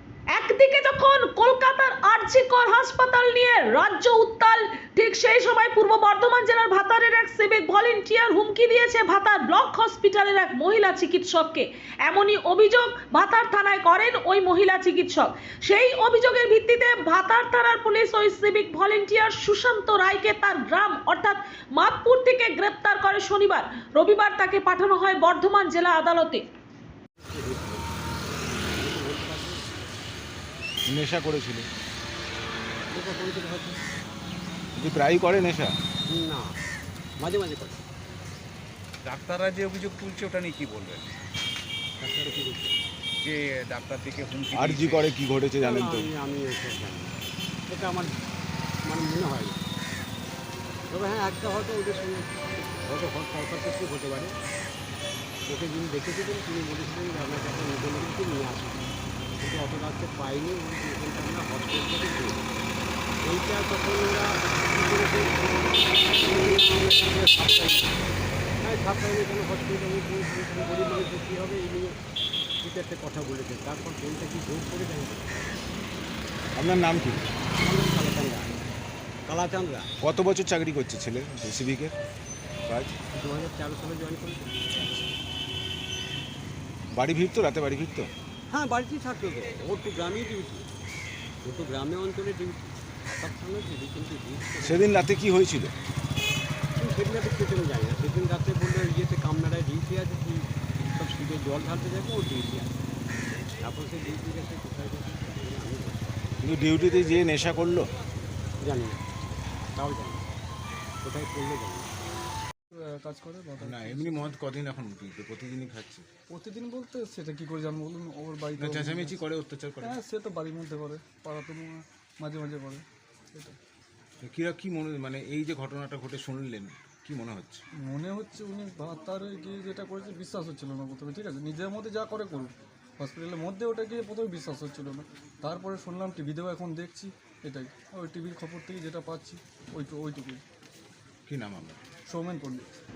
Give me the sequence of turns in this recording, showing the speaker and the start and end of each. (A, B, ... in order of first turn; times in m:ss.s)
0:00.3-0:26.4 A
0:27.3-0:27.9 B
0:28.7-0:29.6 B
0:30.9-0:31.7 C
0:32.9-0:33.8 B
0:34.8-0:35.7 C
0:36.1-0:36.6 B
0:37.2-0:37.8 B
0:39.0-0:41.1 D
0:42.0-0:42.8 B
0:43.2-0:45.1 D
0:44.5-0:46.1 C
0:45.6-0:47.1 B
0:47.7-0:48.1 B
0:48.9-0:49.6 B
0:50.9-0:54.3 B
0:55.5-1:02.5 B
1:03.2-1:08.1 B
1:08.6-1:12.0 B
1:12.6-1:15.6 B
1:16.6-1:17.3 C
1:17.6-1:18.6 B
1:19.3-1:19.9 B
1:20.0-1:22.0 C
1:22.7-1:22.9 C
1:23.1-1:24.5 B
1:24.8-1:25.1 C
1:26.9-1:28.1 C
1:28.5-1:30.7 B
1:31.4-1:34.9 B
1:34.6-1:35.7 C
1:36.8-1:42.7 B
1:43.6-1:46.4 B
1:46.4-1:47.9 C
1:48.6-1:49.1 B
1:49.8-1:50.3 B
1:51.0-1:52.0 B
1:52.7-1:54.3 E
1:53.6-1:56.1 C
1:56.3-1:59.2 E
1:58.6-2:00.0 C
1:59.8-2:03.6 E
2:04.2-2:07.6 C
2:07.9-2:20.4 E
2:21.3-2:21.8 C
2:22.1-2:22.7 E